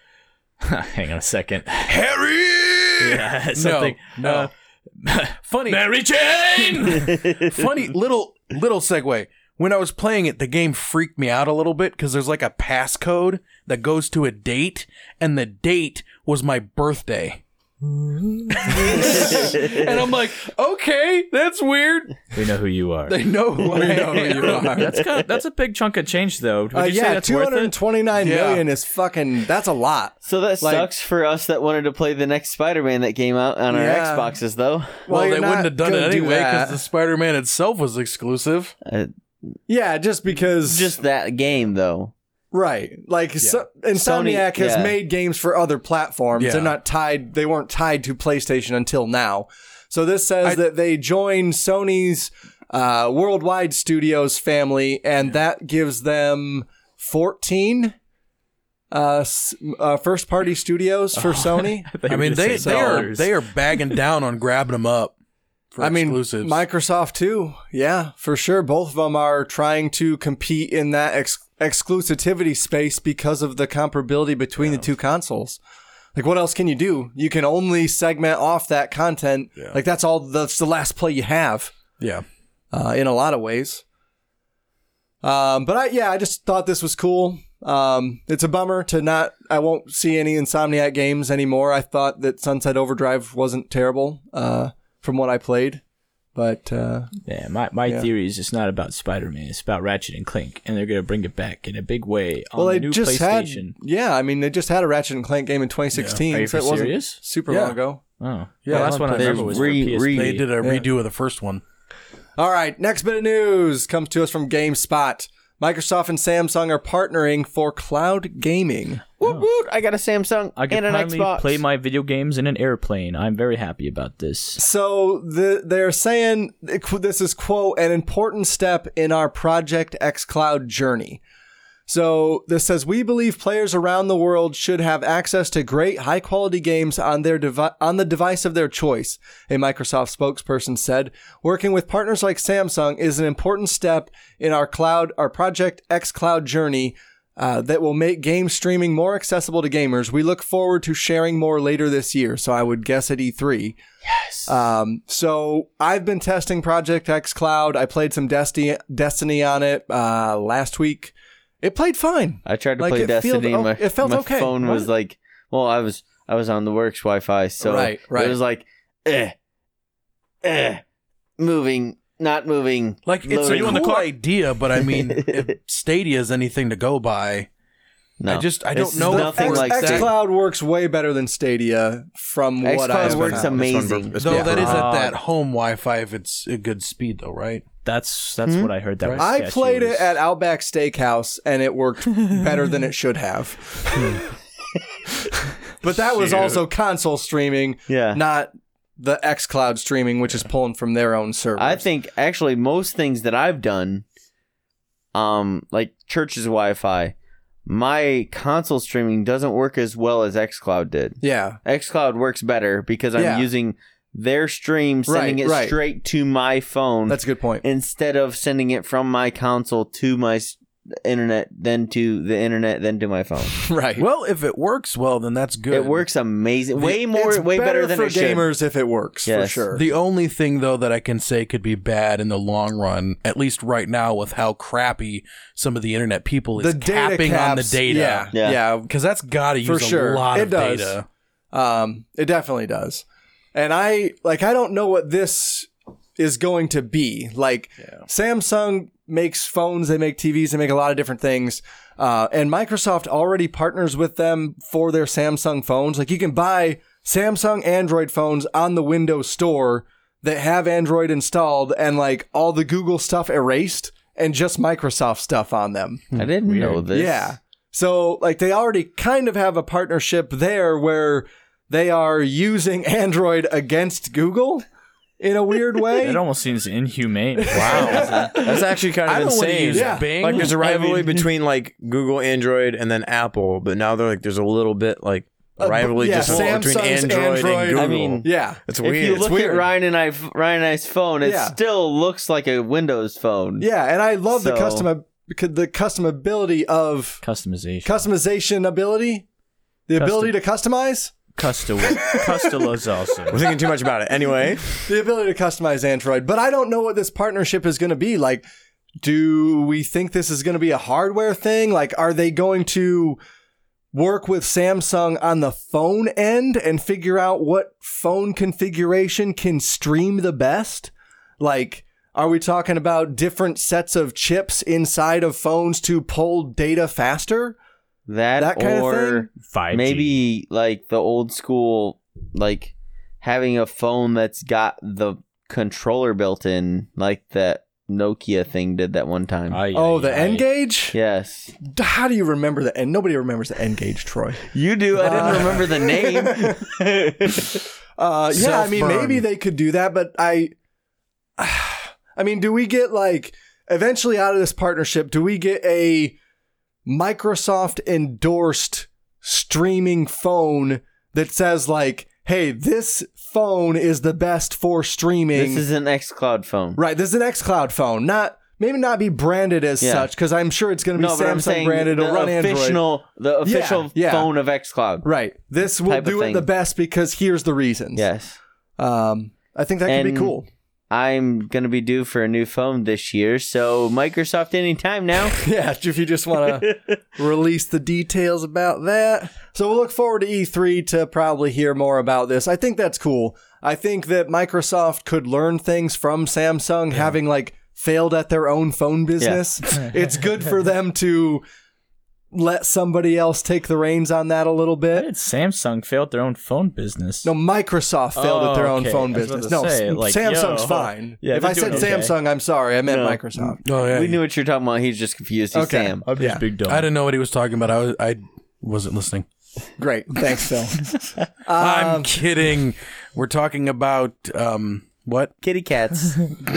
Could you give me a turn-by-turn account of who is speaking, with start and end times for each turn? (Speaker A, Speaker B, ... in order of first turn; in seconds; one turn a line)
Speaker A: 0.6-2.0
Speaker B: 1.9-4.5
Speaker A: 3.0-7.1
Speaker B: 5.5-17.4
Speaker B: 18.5-22.2
Speaker C: 19.3-19.8
Speaker A: 22.3-23.2
Speaker B: 23.1-24.9
Speaker D: 23.6-24.9
Speaker A: 24.4-27.7
Speaker D: 26.7-30.9
Speaker B: 28.1-28.6
Speaker C: 30.2-35.1
Speaker D: 33.7-34.3
Speaker D: 35.0-36.8
Speaker B: 35.1-38.7
Speaker C: 38.8-39.1
Speaker D: 39.7-40.9
Speaker C: 40.6-42.1
Speaker D: 42.5-57.9
Speaker C: 43.9-45.0
Speaker B: 46.4-46.8
Speaker D: 58.9-63.1
Speaker A: 61.1-64.0
Speaker B: 62.1-65.1
Speaker B: 65.7-66.6
Speaker D: 65.8-75.6
Speaker B: 74.6-74.9
Speaker D: 76.1-81.7
Speaker B: 82.0-82.2
Speaker D: 82.7-83.8
Speaker D: 85.2-95.8
Speaker D: 96.3-97.1
Speaker A: 97.2-103.7
Speaker D: 102.5-108.0
Speaker B: 105.9-106.2
Speaker A: 106.3-107.2
Speaker B: 107.5-107.8
Speaker A: 108.2-110.5
Speaker B: 108.6-111.6
Speaker D: 108.7-109.0
Speaker C: 109.1-110.4
Speaker D: 110.6-110.9
Speaker D: 112.4-119.0
Speaker C: 119.2-121.6
Speaker A: 120.5-124.6
Speaker D: 124.6-131.2
Speaker D: 131.9-153.8
Speaker D: 154.4-164.8
Speaker C: 162.4-169.3
Speaker D: 167.6-168.4
Speaker C: 170.4-170.8
Speaker C: 171.4-174.0
Speaker B: 173.0-177.5
Speaker A: 173.4-174.1
Speaker C: 174.8-175.4
Speaker C: 178.2-180.1
Speaker B: 178.2-180.1
Speaker D: 179.0-183.5
Speaker C: 182.6-184.2
Speaker E: 183.0-184.9
Speaker B: 184.2-187.6
Speaker D: 184.3-184.8
Speaker A: 184.6-185.2
Speaker A: 187.8-190.2
Speaker D: 189.2-194.2
Speaker D: 195.8-201.8
Speaker B: 195.8-196.6
Speaker C: 197.9-198.2
Speaker C: 201.6-204.0
Speaker C: 205.1-207.1
Speaker C: 207.7-223.6
Speaker D: 211.2-211.6
Speaker D: 213.2-213.5
Speaker D: 215.1-215.8
Speaker D: 217.1-217.6
Speaker D: 223.6-224.0
Speaker B: 224.0-226.1
Speaker C: 225.7-228.5
Speaker D: 226.8-229.8
Speaker C: 229.2-229.6
Speaker B: 229.7-241.1
Speaker D: 236.6-238.9
Speaker C: 238.3-238.6
Speaker D: 239.6-241.0
Speaker D: 241.5-266.1
Speaker C: 266.1-267.3
Speaker A: 266.2-266.8
Speaker D: 266.9-274.6
Speaker D: 275.2-276.2
Speaker A: 276.0-278.3
Speaker E: 277.5-289.3
Speaker D: 277.5-278.2
Speaker C: 277.9-278.4
Speaker B: 279.1-281.2
Speaker D: 279.7-280.1
Speaker D: 285.6-289.7
Speaker C: 287.7-288.3
Speaker C: 288.8-293.6
Speaker D: 291.2-291.5
Speaker D: 293.6-297.2
Speaker C: 294.3-294.9
Speaker A: 297.2-298.1
Speaker D: 297.8-299.2
Speaker D: 299.9-301.1
Speaker A: 299.9-300.4
Speaker A: 301.4-303.4
Speaker D: 301.9-302.2
Speaker E: 303.3-304.7
Speaker D: 304.9-308.4
Speaker D: 309.0-313.2
Speaker D: 313.9-327.6
Speaker C: 328.1-339.6
Speaker D: 328.4-329.3
Speaker A: 329.4-330.2
Speaker A: 339.5-340.5
Speaker D: 339.7-340.9
Speaker C: 340.9-341.5
Speaker D: 341.6-344.4
Speaker C: 344.5-347.6
Speaker D: 344.9-346.6
Speaker D: 348.0-350.5
Speaker B: 348.3-349.2
Speaker D: 351.4-356.2
Speaker D: 356.9-365.6
Speaker C: 365.3-366.8
Speaker D: 366.8-372.8
Speaker C: 369.8-370.1
Speaker C: 370.9-375.1
Speaker D: 373.4-374.3
Speaker D: 375.0-378.1
Speaker C: 375.8-376.5
Speaker C: 377.9-378.4
Speaker D: 378.8-380.4
Speaker C: 379.9-380.4
Speaker C: 380.9-385.4
Speaker D: 385.4-401.4
Speaker C: 386.5-386.9
Speaker D: 402.3-405.1
Speaker A: 404.9-407.3
Speaker D: 407.2-413.6
Speaker A: 408.1-412.1
Speaker C: 412.9-416.1
Speaker B: 413.6-414.2
Speaker D: 415.5-416.4
Speaker A: 416.1-416.9
Speaker B: 416.7-419.2
Speaker D: 419.8-420.9
Speaker D: 421.4-422.1
Speaker B: 421.6-425.3
Speaker C: 425.4-426.2